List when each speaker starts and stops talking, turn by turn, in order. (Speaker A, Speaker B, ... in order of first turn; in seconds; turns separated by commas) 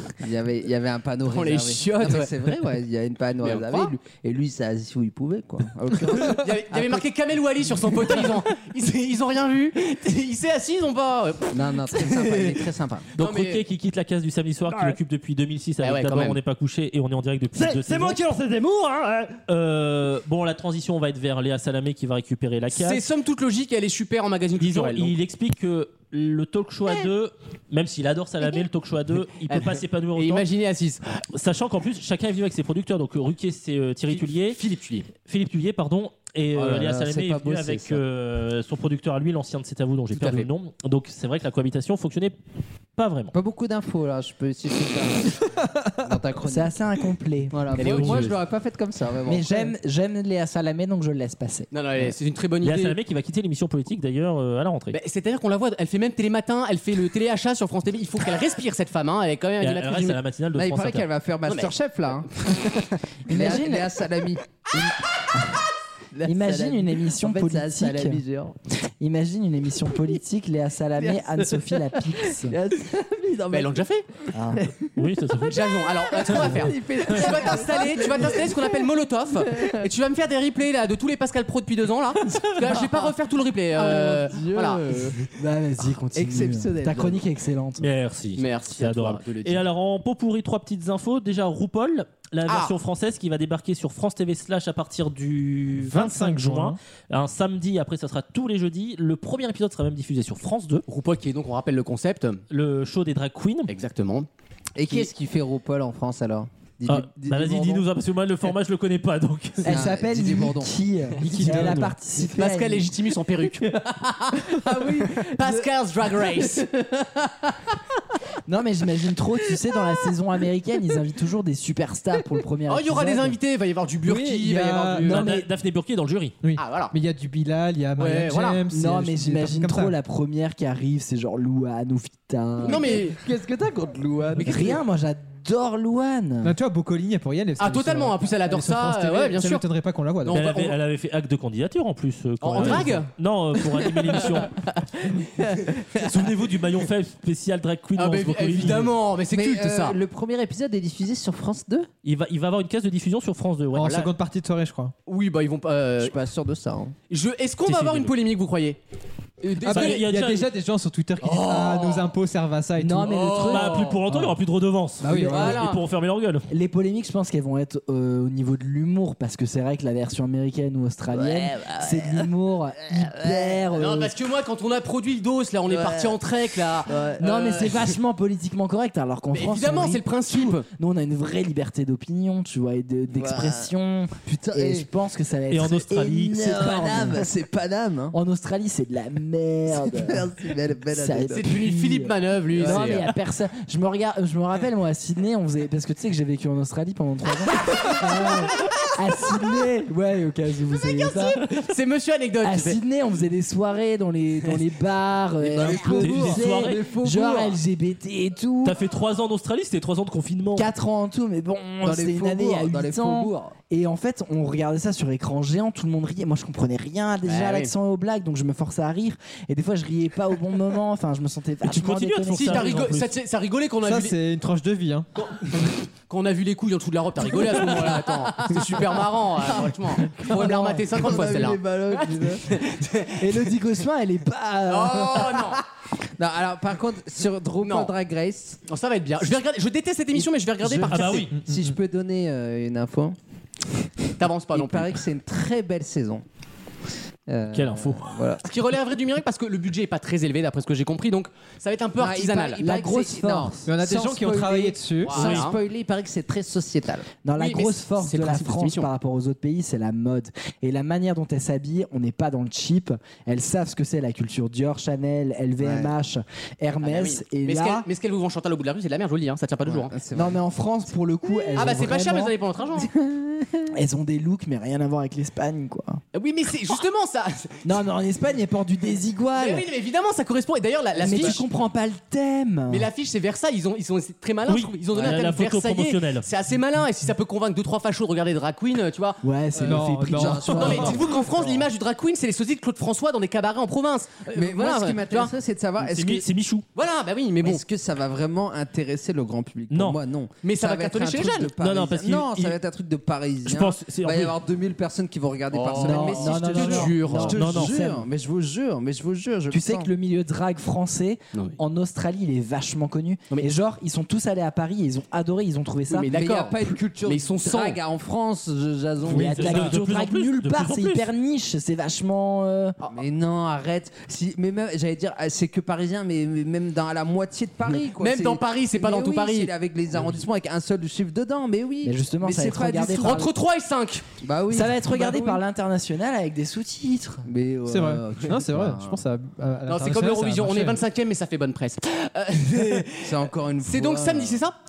Speaker A: 0.2-7.0, Speaker B: 1.3-2.7, Speaker B: 3.4-3.9, Speaker B: 6.1-12.6, Speaker A: 8.0-8.3, Speaker A: 11.5-13.1, Speaker C: 13.2-18.2, Speaker B: 13.2-13.7, Speaker D: 14.7-15.0, Speaker B: 15.8-16.4, Speaker D: 17.5-19.4, Speaker C: 19.5-23.0, Speaker B: 22.7-25.1, Speaker C: 24.6-30.4, Speaker B: 29.5-31.2, Speaker C: 31.3-34.6, Speaker B: 34.1-35.1, Speaker C: 35.2-42.4, Speaker A: 36.5-38.0, Speaker B: 40.1-40.5, Speaker C: 43.0-43.3, Speaker A: 43.3-46.8, Speaker E: 46.5-48.0, Speaker A: 47.5-49.7, Speaker B: 47.8-48.4, Speaker C: 47.8-48.3, Speaker E: 49.2-51.7, Speaker B: 51.7-53.0, Speaker C: 52.6-55.0, Speaker B: 54.9-60.2, Speaker C: 59.6-61.1, Speaker A: 60.5-65.0, Speaker B: 61.5-61.7, Speaker E: 63.3-63.9, Speaker A: 66.1-68.6, Speaker E: 66.2-68.2, Speaker E: 69.0-72.6, Speaker A: 71.0-73.8, Speaker B: 73.5-74.1, Speaker E: 74.3-74.7, Speaker A: 74.3-74.9, Speaker C: 75.0-75.6, Speaker B: 75.4-85.3, Speaker A: 76.1-78.9, Speaker A: 79.5-79.9, Speaker A: 82.5-83.1, Speaker A: 83.7-85.2, Speaker E: 85.3-87.9, Speaker A: 86.2-87.2, Speaker C: 87.8-100.8, Speaker B: 88.4-89.7, Speaker B: 92.5-92.7, Speaker F: 95.8-96.8, Speaker B: 100.9-102.4, Speaker C: 102.5-103.7, Speaker B: 103.7-104.3, Speaker A: 104.8-107.8, Speaker C: 106.9-109.7, Speaker E: 109.6-113.0, Speaker A: 109.6-110.7, Speaker C: 111.3-111.9, Speaker B: 112.2-113.8, Speaker A: 113.9-115.2, Speaker B: 114.4-116.7, Speaker A: 116.4-117.5, Speaker E: 118.5-123.4, Speaker B: 122.7-125.4, Speaker F: 124.0-125.5, Speaker C: 125.0-126.3, Speaker F: 126.4-129.9, Speaker B: 126.6-126.9, Speaker B: 128.0-128.6, Speaker E: 128.7-133.1, Speaker A: 132.6-134.8, Speaker B: 132.7-133.2, Speaker B: 134.4-134.8, Speaker E: 134.4-136.6, Speaker F: 136.4-140.4, Speaker B: 137.6-139.7, Speaker B: 140.2-140.8, Speaker C: 140.3-144.5, Speaker B: 142.4-143.1, Speaker B: 144.1-144.6, Speaker C: 145.9-148.9, Speaker B: 148.0-150.0, Speaker A: 149.3-151.9, Speaker C: 152.0-154.0, Speaker F: 153.8-154.9, Speaker B: 155.1-156.1, Speaker A: 156.0-156.9, Speaker B: 157.1-158.8, Speaker C: 157.7-158.1, Speaker B: 159.4-160.1, Speaker F: 159.6-163.2, Speaker C: 159.7-160.5, Speaker B: 161.2-162.1, Speaker E: 162.8-164.3, Speaker B: 163.0-164.0, Speaker C: 163.5-166.4, Speaker E: 165.0-165.7, Speaker A: 165.1-165.7, Speaker B: 165.3-165.8, Speaker E: 166.5-174.1, Speaker A: 171.1-173.7, Speaker B: 173.7-177.9, Speaker A: 175.7-176.2, Speaker A: 176.9-177.2, Speaker E: 177.2-187.3, Speaker B: 179.3-180.7, Speaker A: 183.2-183.7, Speaker A: 184.5-184.9, Speaker C: 185.5-186.4, Speaker A: 186.3-188.2, Speaker E: 188.1-190.3, Speaker A: 189.7-191.5, Speaker E: 190.9-201.4, Speaker B: 191.3-193.1, Speaker A: 192.6-193.1, Speaker B: 201.2-202.8, Speaker E: 202.4-208.8, Speaker A: 205.4-207.6, Speaker B: 205.6-205.9, Speaker C: 206.0-206.8, Speaker C: 208.6-210.7, Speaker E: 210.6-222.8, Speaker A: 211.8-213.6, Speaker B: 217.2-217.7, Speaker C: 221.6-223.1, Speaker B: 222.3-224.2, Speaker F: 223.8-225.1, Speaker B: 225.2-233.4, Speaker A: 227.3-232.5, Speaker E: 230.4-231.6, Speaker E: 233.2-235.5, Speaker B: 234.7-235.6, Speaker A: 236.2-238.6, Speaker B: 237.6-237.9, Speaker B: 238.7-241.3, Speaker F: 240.7-241.8, Speaker A: 240.7-243.2, Speaker C: 240.9-241.3, Speaker B: 244.2-245.0, Speaker A: 244.5-246.2, Speaker A: 247.3-248.4, Speaker C: 247.5-248.1, Speaker B: 248.4-252.7, Speaker A: 252.0-257.1, Speaker E: 252.6-253.7, Speaker F: 253.7-255.2, Speaker B: 255.0-255.6, Speaker C: 255.2-255.5, Speaker E: 257.2-267.9, Speaker B: 257.4-258.9, Speaker A: 265.6-265.9, Speaker B: 266.8-269.9, Speaker A: 269.6-270.4, Speaker E: 270.1-272.3, Speaker B: 271.6-272.9, Speaker A: 273.0-273.7, Speaker E: 273.7-276.0, Speaker B: 276.1-277.7, Speaker E: 277.6-279.7, Speaker B: 279.3-281.4, Speaker E: 281.0-282.9, Speaker B: 282.7-289.2, Speaker C: 284.5-286.3, Speaker E: 289.2-291.1, Speaker F: 289.6-290.9, Speaker A: 289.6-291.2, Speaker B: 290.4-295.3, Speaker A: 294.3-296.3, Speaker C: 295.8-296.6, Speaker B: 296.8-297.6, Speaker A: 297.4-309.9, Speaker C: 299.7-300.0, Speaker B: 300.4-301.5, Speaker C: 301.6-302.6, Speaker C: 303.5-304.4, Speaker B: 305.5-307.5, Speaker E: 305.8-308.1, Speaker C: 307.3-307.8, Speaker E: 309.5-316.1, Speaker B: 315.9-317.8, Speaker A: 316.1-319.7, Speaker F: 319.1-319.7, Speaker E: 319.1-322.8, Speaker C: 319.2-321.1, Speaker A: 322.9-333.3, Speaker B: 327.8-329.5, Speaker E: 331.8-333.3, Speaker B: 332.8-334.1, Speaker A: 334.2-334.8, Speaker E: 334.5-337.3, Speaker F: 334.8-335.4, Speaker A: 337.2-339.0, Speaker F: 337.7-340.8, Speaker B: 339.7-344.6, Speaker A: 343.0-344.4